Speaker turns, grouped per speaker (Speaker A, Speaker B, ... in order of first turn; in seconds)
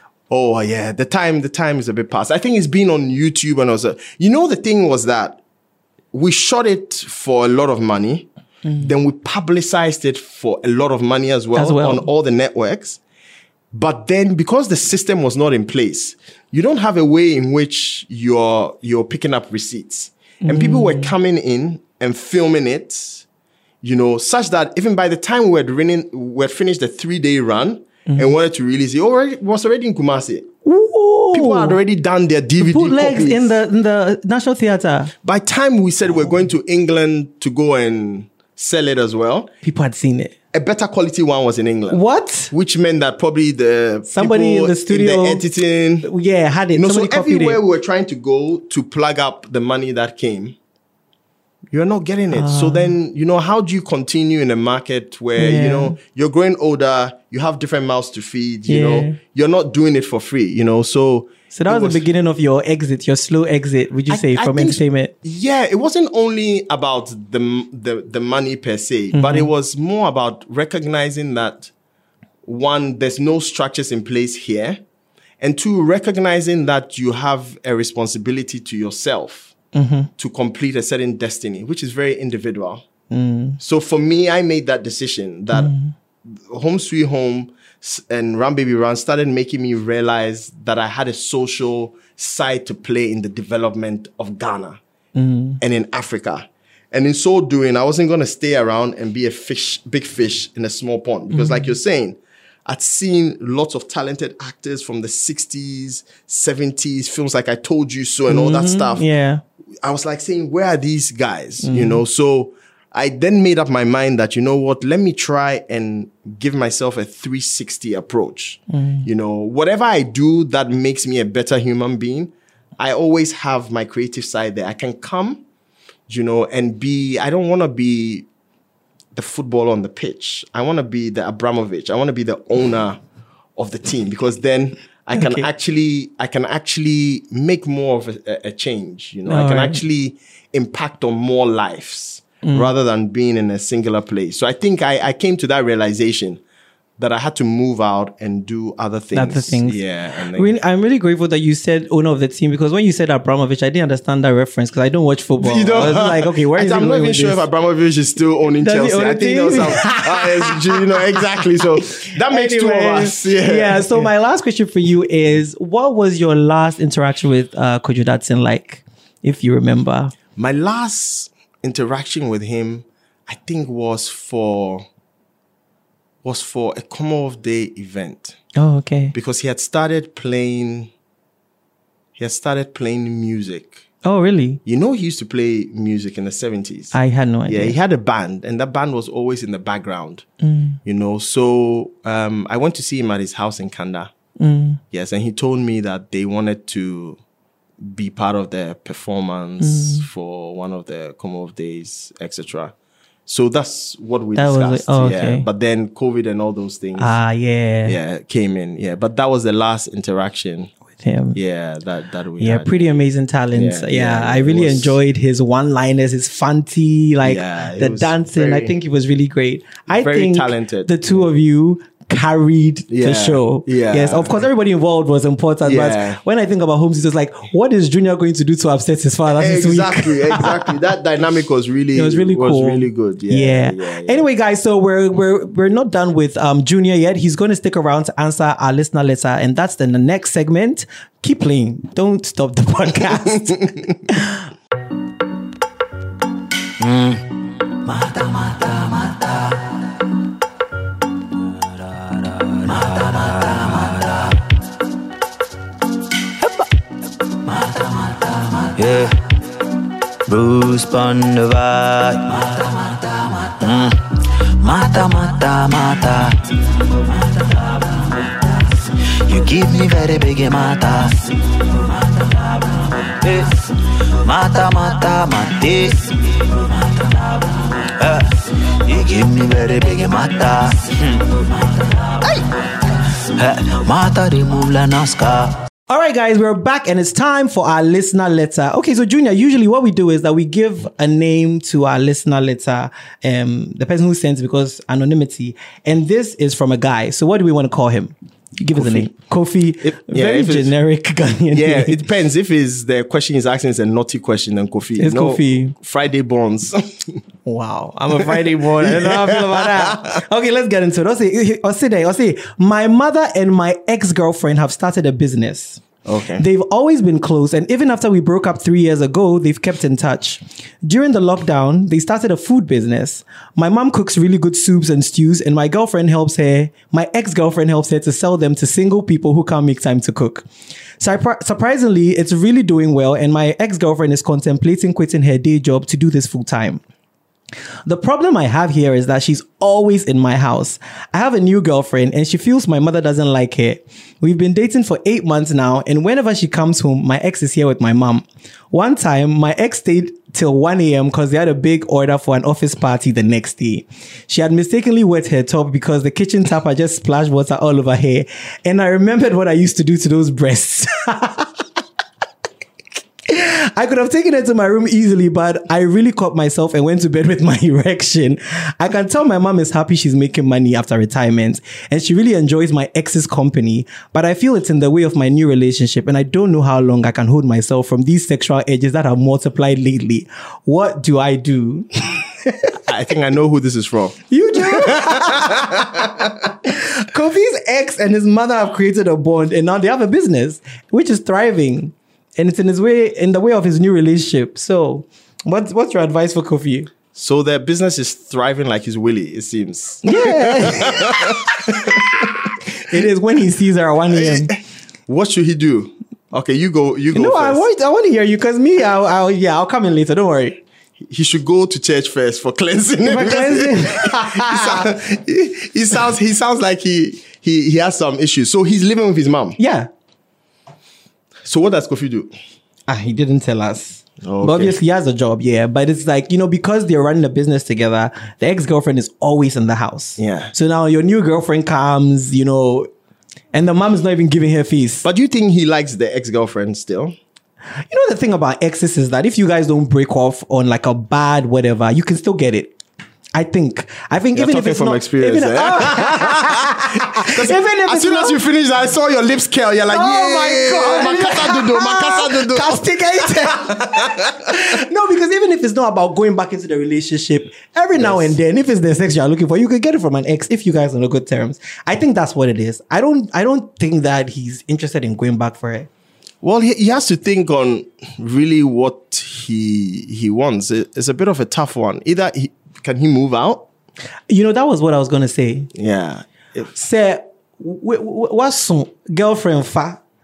Speaker A: 0.3-5.4, 6.1-8.3, 8.8-13.0, 13.7-23.2, 23.8-30.5, 31.3-33.5, 35.2-39.5, 40.5-46.1, 46.7-50.5, 51.7-62.0, 64.1-71.7, 72.5-74.8, 75.4-79.5, 80.2-82.8, 83.6-85.7, 86.3-94.8, 95.6-109.0, 109.8-125.4, 126.1-128.2, 129.1-133.0, 133.6-146.4, 147.0-150.5, 155.4-164.1, 170.3-174.8, 176.2-178.4, 179.1-180.9, 182.2-183.8, 184.6-186.9, 187.5-190.2, 190.8-194.1, 194.9-197.2, 197.8-202.7, 203.3-207.2, 207.8-210.7, 211.3-213.0, 213.5-214.9, 217.2-218.7, 219.9-221.2, 222.9-224.4, 225.6-226.2, 229.3-234.2, 298.7-299.1, 299.8-300.7, 301.5-307.2, 308.2-310.1, 316.0-316.4, 382.9-386.3, 397.1-402.5, 404.1-407.6, 411.0-419.6, 421.4-422.3, 424.2-424.8, 430.2-430.5, 435.0-437.1, 444.3-454.4, 457.9-458.3, 466.4-473.6, 475.7-476.7
Speaker B: 8.7-8.9, 11.6-12.1, 20.4-21.1, 30.6-31.8, 32.6-35.1, 39.6-40.3, 41.9-42.5, 44.1-45.4, 46.0-47.6, 52.3-52.9, 55.4-56.0, 58.7-59.2, 61.5-65.1, 69.1-69.5, 79.7-80.1, 83.1-83.6, 85.5-85.9, 95.2-95.6, 101.3-101.7, 108.3-109.4, 111.6-112.0, 118.7-119.0, 135.1-135.4, 139.3-139.8, 142.4-142.7, 149.1-149.8, 150.3-157.4, 158.6-160.8, 162.3-170.1, 178.6-179.1, 184.0-184.6, 186.9-187.8, 190.4-190.8, 194.4-194.8, 199.6-200.0, 204.3-205.4, 207.0-207.9, 211.0-211.4, 212.4-230.7, 231.9-244.4, 285.9-302.0, 305.0-305.7, 307.4-315.8, 316.4-330.4, 331.0-336.8, 337.9-361.5, 363.2-381.9, 384.3-386.1, 386.6-396.9, 400.0-401.9, 402.8-404.5, 407.1-410.6, 413.0-414.9, 419.6-419.9, 422.9-432.9, 433.5-435.0, 437.9-442.8, 443.3-448.4, 449.9-465.9, 474.3-475.7, 476.7-480.0
Speaker C: 246.8-247.2, 247.8-249.5, 252.4-254.3, 257.4-259.1, 260.3-264.0, 264.6-266.4, 267.2-268.4, 269.2-271.2, 272.0-273.5, 274.2-276.1, 276.6-282.4, 283.3-285.6